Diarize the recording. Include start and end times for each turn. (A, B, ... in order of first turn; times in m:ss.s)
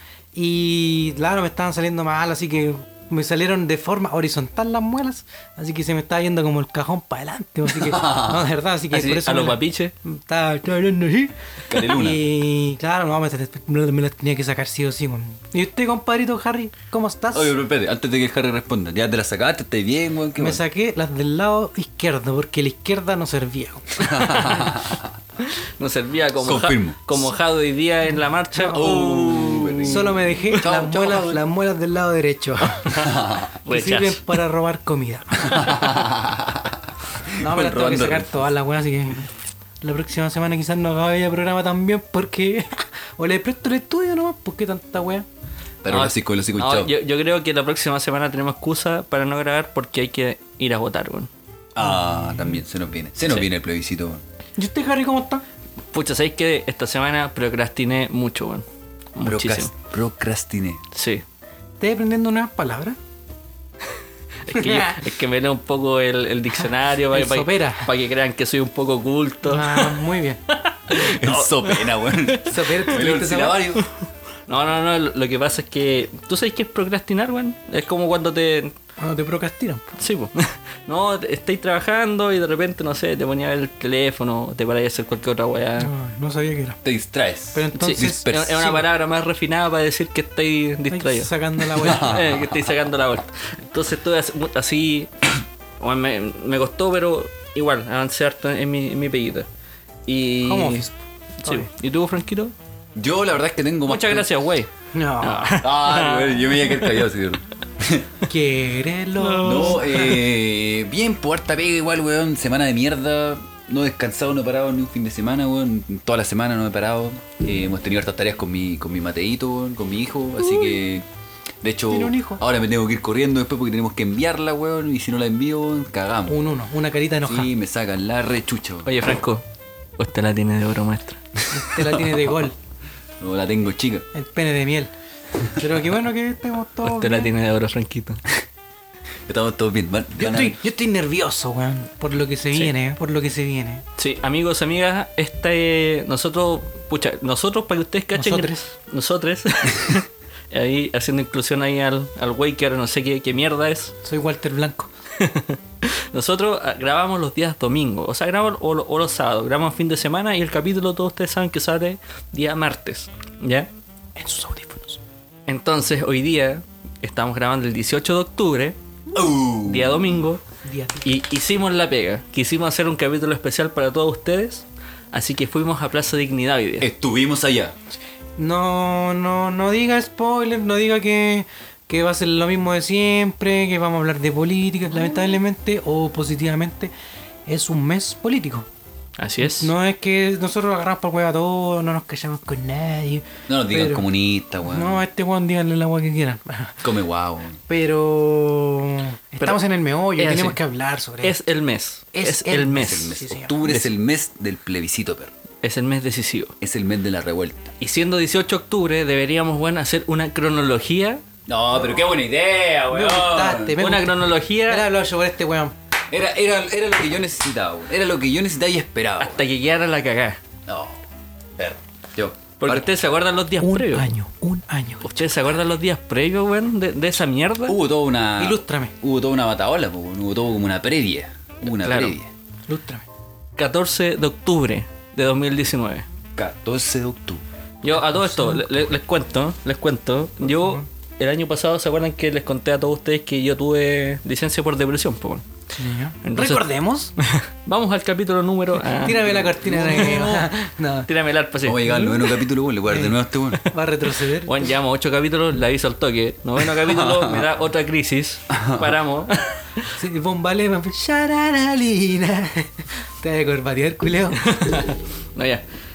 0:00.3-0:17.5 A
0:07.7-0:08.4 B
0:08.9-0:09.9 C
0:11.7-0:12.2 B
0:17.3-0:20.6 B
0:20.4-0:24.5 A
0:24.0-0:25.0 B
0:24.2-0:24.6 C
0:25.4-0:30.0 C
0:26.4-0:27.1 B
0:28.6-0:28.9 A
0:28.7-0:31.4 B
0:29.9-0:33.0 A
0:32.9-0:34.4 C
0:33.7-0:35.7 A
0:35.5-0:38.3 B
0:37.4-0:39.3 A
0:39.8-0:45.2 A
0:45.8-0:46.9 B
0:45.9-0:51.3 C
0:51.7-0:54.2 B
0:51.8-0:52.6 A
0:54.6-0:55.4 A
0:55.9-0:58.6 C
0:59.2-0:59.7 C
0:59.2-1:00.8 B
1:00.9-1:01.2 C
1:01.8-1:03.0 A
1:04.5-1:10.0 C
1:04.5-1:04.9 A
1:07.1-1:07.9 A
1:09.4-1:10.4 A
1:10.9-1:12.3 C
1:10.9-1:13.8 B
1:12.4-1:13.6 A
1:14.5-1:18.7 C
1:19.0-1:19.9 A
1:20.0-1:25.9 C
1:25.8-1:26.8 A
1:26.8-1:28.6 B
1:27.5-1:28.8 A
1:27.8-1:35.1 C
1:30.9-1:32.1 A
1:31.8-1:32.5 B
1:35.8-1:39.5 C
1:40.1-1:40.8 C
1:40.4-1:41.7 A
1:41.4-1:42.5 C
1:43.0-1:44.2 B
1:43.8-1:44.7 C
1:44.9-1:45.6 A
1:45.2-1:47.0 C
1:45.6-1:48.1 B
1:48.3-1:50.2 A
1:49.2-1:50.2 C
1:49.4-2:01.0 B
2:01.6-2:06.4 B
2:01.9-2:02.4 A
2:06.3-2:07.5 A
2:07.2-2:08.9 B
2:08.8-2:09.4 C
2:10.0-2:11.2 C
2:11.5-2:12.5 A
2:11.8-2:12.2 B
2:13.2-2:14.0 B
2:14.1-2:14.9 A
2:15.6-2:17.3 A
2:16.8-2:18.2 C
2:19.3-2:20.6 B
2:20.2-2:23.8 A
2:24.0-2:33.9 C
2:28.1-2:28.7 A
2:34.0-2:34.9 A
2:35.2-2:43.7 C
2:44.2-2:45.0 A
2:45.5-2:48.8 C
2:49.1-2:50.2 B
2:49.7-2:50.4 C
2:50.6-2:51.1 A
2:51.0-2:56.9 C
2:56.8-2:57.7 B
2:58.4-3:06.9 A
3:07.5-3:08.7 A
3:09.2-3:09.7 C
3:09.4-3:14.0 A
3:13.5-3:15.0 B
3:14.6-3:16.8 A
3:16.8-3:17.6 B
3:17.7-3:21.3 A
3:20.2-3:20.6 C
3:21.2-3:23.1 C
3:22.2-3:25.3 B
3:22.2-3:23.6 A
3:25.6-3:26.5 C
3:26.6-3:27.7 B
3:27.8-3:31.2 C
3:31.5-3:33.7 B
3:32.9-3:35.7 A
3:33.8-3:34.9 C
3:36.1-3:39.3 B
3:39.2-3:40.4 C
3:40.7-3:41.0 B
3:41.6-3:42.9 B
3:42.6-3:44.1 C
3:43.6-3:45.2 A
3:45.0-3:47.8 C
3:47.6-3:52.3 B
3:48.4-3:48.9 A
3:51.8-3:52.2 C
3:52.7-3:53.0 A
3:53.6-3:56.0 C
3:56.4-3:57.4 B
3:57.8-4:05.4 C
3:58.0-3:58.6 A
4:00.4-4:00.8 A
4:05.8-4:07.1 A
4:06.2-4:06.6 C
4:07.6-4:10.4 C
4:09.0-4:11.1 A
4:09.9-4:10.1 B
4:11.1-4:12.2 C
4:11.6-4:13.6 B
4:12.9-4:13.1 A
4:13.6-4:14.7 A
4:14.4-4:19.6 C
4:16.7-4:17.4 B
4:18.5-4:18.9 B
4:20.0-4:24.5 A
4:24.4-4:25.6 C